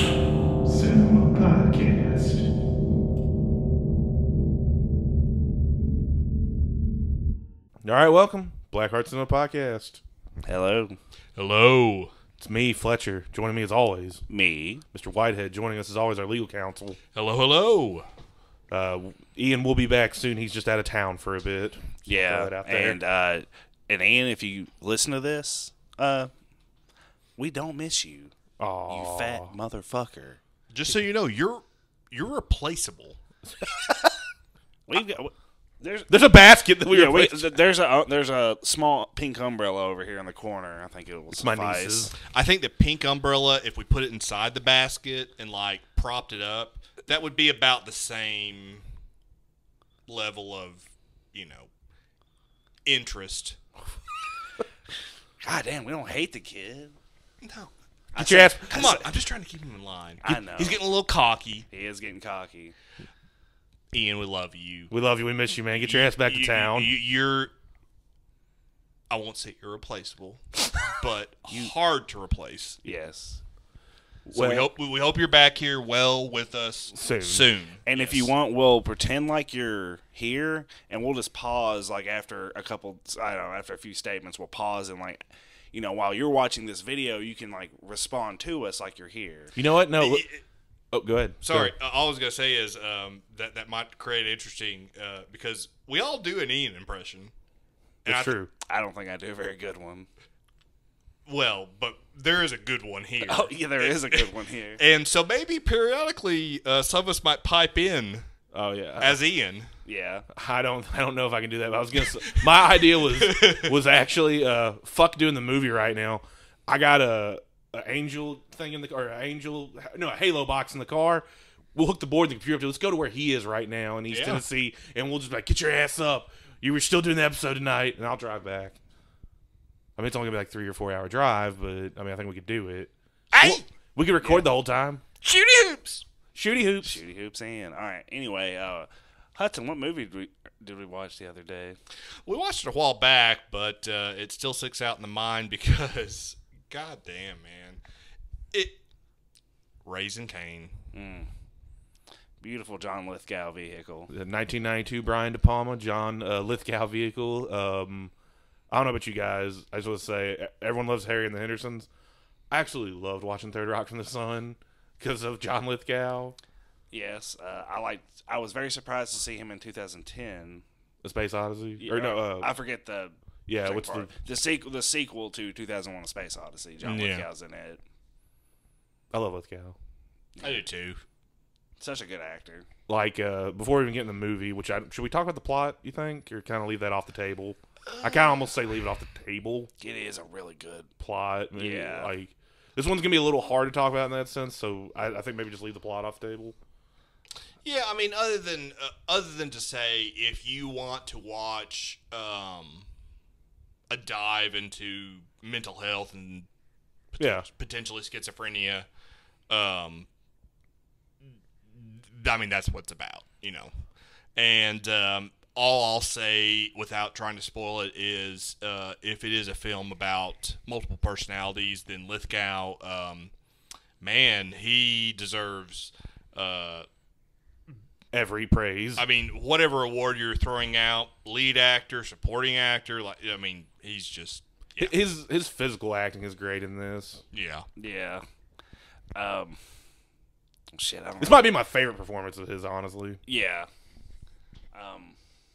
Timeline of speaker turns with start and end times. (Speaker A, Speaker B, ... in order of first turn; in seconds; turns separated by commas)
Speaker A: 0.6-2.5, Speaker A: 7.8-10.0, Speaker B: 10.5-11.0, Speaker C: 11.4-12.1, Speaker A: 12.4-14.2, Speaker B: 14.3-14.8, Speaker A: 14.9-17.0, Speaker C: 17.1-18.1, Speaker A: 18.7-23.0, Speaker B: 22.1-26.3, Speaker B: 27.4-28.3, Speaker A: 28.6-29.5, Speaker B: 28.9-30.4, Speaker C: 30.7-33.2, Speaker A: 33.6-34.2, Speaker B: 34.9-36.1, Speaker A: 36.1-37.5, Speaker B: 36.9-42.1, Speaker A: 41.3-42.1, Speaker C: 42.2-48.8, Speaker C: 50.1-51.7, Speaker C: 52.8-53.6, Speaker B: 55.4-57.0, Speaker C: 57.4-57.7, Speaker B: 58.1-59.1, Speaker A: 58.2-58.8, Speaker C: 58.7-61.7, Speaker B: 60.2-60.8, Speaker B: 61.7-62.8, Speaker C: 63.9-64.9, Speaker A: 64.9-66.9, Speaker C: 65.8-67.5, Speaker C: 69.1-72.8, Speaker B: 72.8-73.4, Speaker A: 74.2-74.7, Speaker C: 74.3-78.3, Speaker A: 76.9-77.5, Speaker B: 77.8-89.6, Speaker A: 89.6-90.2, Speaker C: 90.0-90.4, Speaker A: 90.9-91.7, Speaker C: 91.4-97.3, Speaker C: 98.0-98.3, Speaker A: 98.0-98.5, Speaker B: 98.7-100.1, Speaker C: 101.3-108.3, Speaker B: 103.2-104.8, Speaker A: 108.5-109.2, Speaker C: 109.0-109.7, Speaker B: 109.8-110.2, Speaker A: 110.3-128.8, Speaker C: 112.2-113.7, Speaker C: 124.1-124.4, Speaker A: 130.0-135.0, Speaker C: 133.3-133.6, Speaker B: 134.2-134.5, Speaker C: 135.2-136.0, Speaker A: 136.3-137.0, Speaker B: 136.8-141.8, Speaker C: 142.2-147.8, Speaker C: 148.5-148.8, Speaker C: 149.8-150.7, Speaker B: 150.9-151.3, Speaker B: 152.4-154.1, Speaker A: 154.1-158.1, Speaker A: 158.7-161.9, Speaker A: 162.5-166.4, Speaker B: 166.9-170.6, Speaker A: 171.0-172.5, Speaker B: 171.8-177.8, Speaker A: 173.5-174.1, Speaker C: 176.8-177.3, Speaker A: 179.1-179.8, Speaker B: 180.4-180.6, Speaker C: 180.4-181.0, Speaker B: 181.8-182.7, Speaker A: 182.9-189.7, Speaker C: 187.9-188.3, Speaker B: 189.8-190.9, Speaker A: 191.0-196.6, Speaker B: 191.6-192.1, Speaker C: 197.6-202.8, Speaker C: 203.9-206.5, Speaker C: 207.1-208.8, Speaker A: 207.2-207.4, Speaker C: 209.5-210.1, Speaker C: 211.7-213.7, Speaker C: 214.3-223.3, Speaker C: 224.0-226.9, Speaker A: 228.1-229.0, Speaker C: 229.0-234.9, Speaker A: 234.8-237.2, Speaker C: 237.3-237.7, Speaker B: 237.8-238.2, Speaker B: 239.1-239.6, Speaker B: 240.7-241.5, Speaker A: 241.2-243.2, Speaker B: 243.2-243.7, Speaker B: 244.7-245.2